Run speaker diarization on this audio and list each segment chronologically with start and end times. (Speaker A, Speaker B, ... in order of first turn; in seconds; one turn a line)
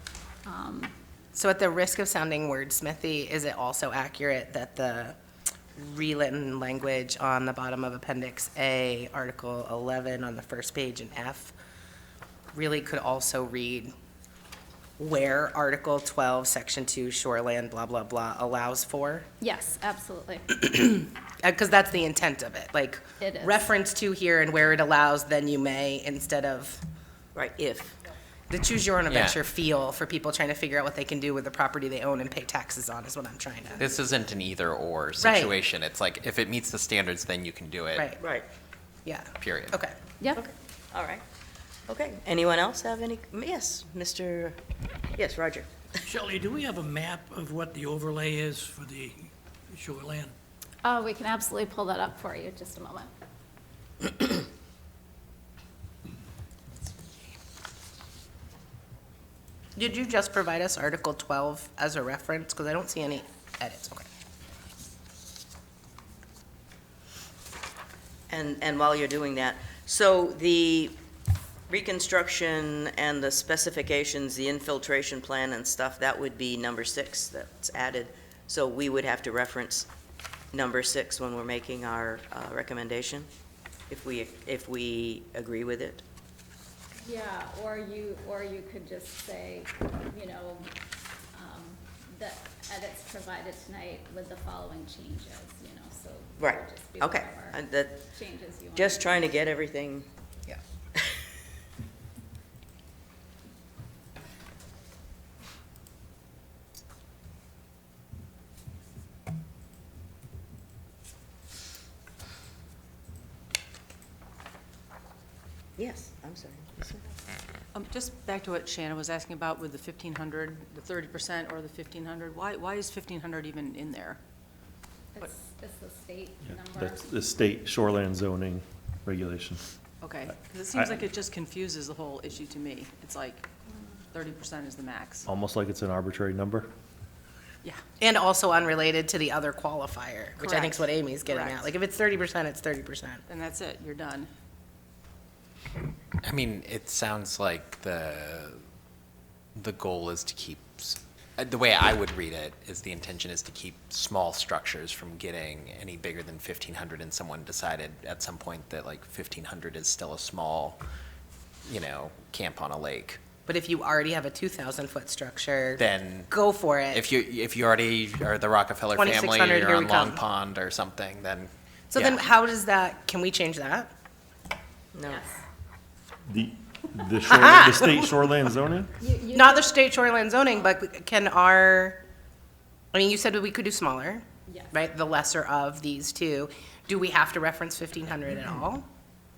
Speaker A: 0.5-0.9
Speaker B: 1.3-5.2
Speaker B: 5.8-11.5
Speaker B: 12.5-13.9
Speaker B: 15.0-19.3
Speaker A: 19.4-20.6
Speaker B: 20.6-26.8
Speaker A: 23.2-23.6
Speaker C: 27.4-28.0
Speaker B: 28.5-33.9
Speaker D: 29.1-29.4
Speaker D: 33.8-38.1
Speaker B: 35.2-35.5
Speaker B: 37.9-38.2
Speaker C: 38.1-38.5
Speaker B: 39.0-40.0
Speaker D: 39.4-39.8
Speaker C: 40.3-41.2
Speaker C: 41.9-44.6
Speaker C: 45.1-45.7
Speaker E: 46.2-50.3
Speaker A: 50.8-53.1
Speaker B: 59.8-64.1
Speaker C: 68.3-71.0
Speaker C: 71.7-79.9
Speaker C: 80.5-83.3
Speaker C: 83.9-86.0
Speaker A: 87.0-90.7
Speaker A: 91.3-97.6
Speaker C: 96.4-98.1
Speaker A: 98.1-99.3
Speaker C: 98.7-100.1
Speaker C: 115.8-117.0
Speaker F: 117.7-124.2
Speaker A: 125.1-127.1
Speaker G: 126.4-129.7
Speaker F: 130.0-133.5
Speaker G: 130.7-131.0
Speaker F: 134.1-135.3
Speaker G: 135.2-136.7
Speaker B: 138.0-143.2
Speaker F: 140.4-141.7
Speaker F: 143.3-144.3
Speaker D: 146.2-148.6
Speaker D: 149.6-160.8
Speaker D: 161.7-163.2
Speaker B: 163.5-167.0
Speaker D: 165.8-166.3
Speaker D: 166.9-172.3
Speaker B: 168.9-170.2
Speaker B: 171.9-173.9
Speaker C: 174.9-175.2
Speaker G: 176.3-178.9
Speaker B: 177.3-178.1
Speaker A: 179.0-179.7
Speaker B: 179.3-182.0
Speaker B: 182.9-188.8
Speaker A: 184.5-184.8